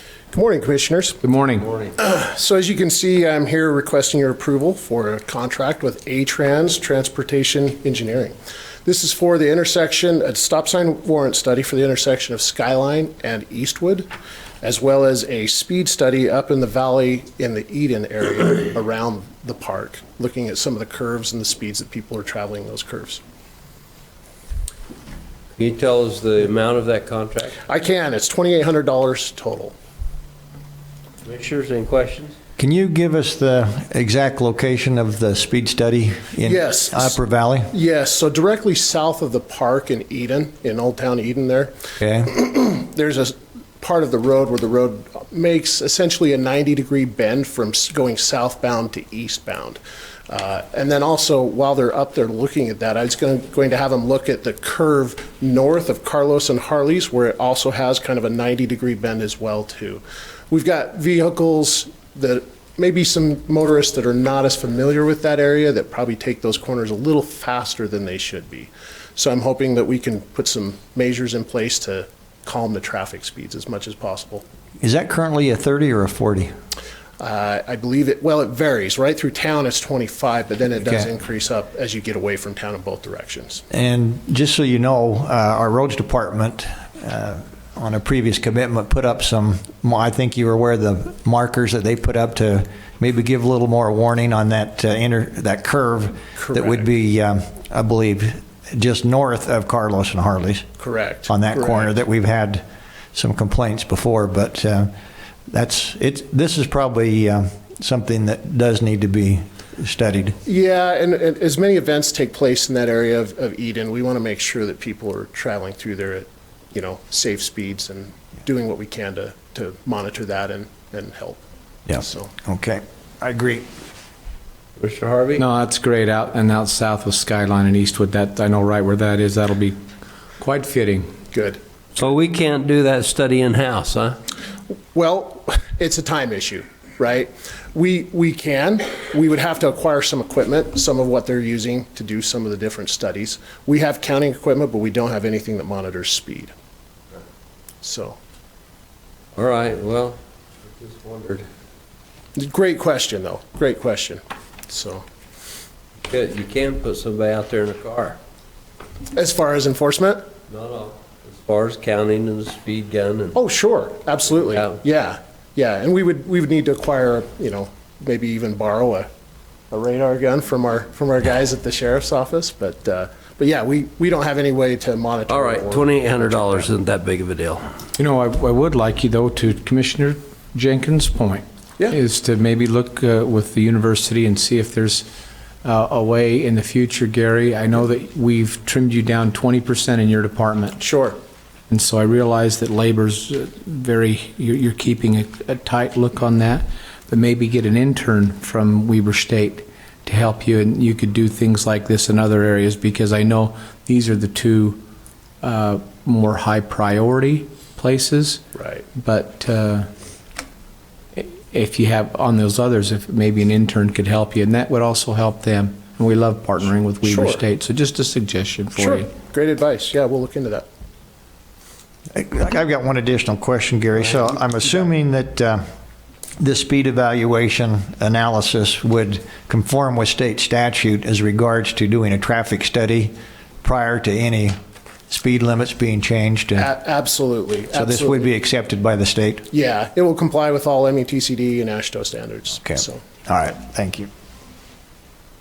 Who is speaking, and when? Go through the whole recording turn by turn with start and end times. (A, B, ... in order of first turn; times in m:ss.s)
0:00.3-0:01.2 A
0:01.2-0:01.7 B
0:02.0-0:14.1 A
0:14.6-0:23.2 A
0:25.6-0:27.6 C
0:27.7-0:29.7 A
0:31.2-0:32.4 C
0:32.6-0:37.7 D
0:36.4-0:37.2 A
0:37.7-0:41.7 A
0:42.0-0:42.3 D
0:42.2-1:14.4 A
1:14.8-1:16.5 D
1:17.2-1:23.6 A
1:23.7-1:40.7 D
1:36.4-1:36.8 A
1:40.8-1:41.9 A
1:41.3-1:44.9 D
1:45.5-1:50.4 D
1:50.4-2:01.4 A
2:01.9-2:03.6 D
2:02.0-2:02.3 A
2:04.8-2:05.4 C
2:05.4-2:09.8 B
2:10.4-2:11.1 B
2:11.3-2:11.6 A
2:12.0-2:14.2 C
2:14.9-2:26.5 A
2:27.8-2:28.2 A
2:29.4-2:31.5 C
2:32.4-2:35.0 A
2:36.1-2:38.2 C
2:39.1-2:40.2 A
2:40.5-2:43.4 C
2:43.3-2:49.1 A
2:44.5-2:44.8 C
2:49.7-2:56.7 A
2:55.3-2:57.7 C
2:58.0-3:05.1 B
3:05.6-3:10.8 B
3:10.8-3:11.2 A
3:11.7-3:24.8 B
3:25.4-3:28.4 B
3:28.6-3:28.8 A
3:28.9-3:29.9 B
3:31.1-3:39.1 B
3:37.0-3:37.4 A
3:38.7-3:40.6 A
3:42.1-3:45.6 D
3:46.4-3:54.6 D
3:55.1-3:56.7 D
3:56.6-3:58.3 A
3:57.7-3:59.5 D
3:59.5-4:03.0 A
4:02.6-4:04.1 D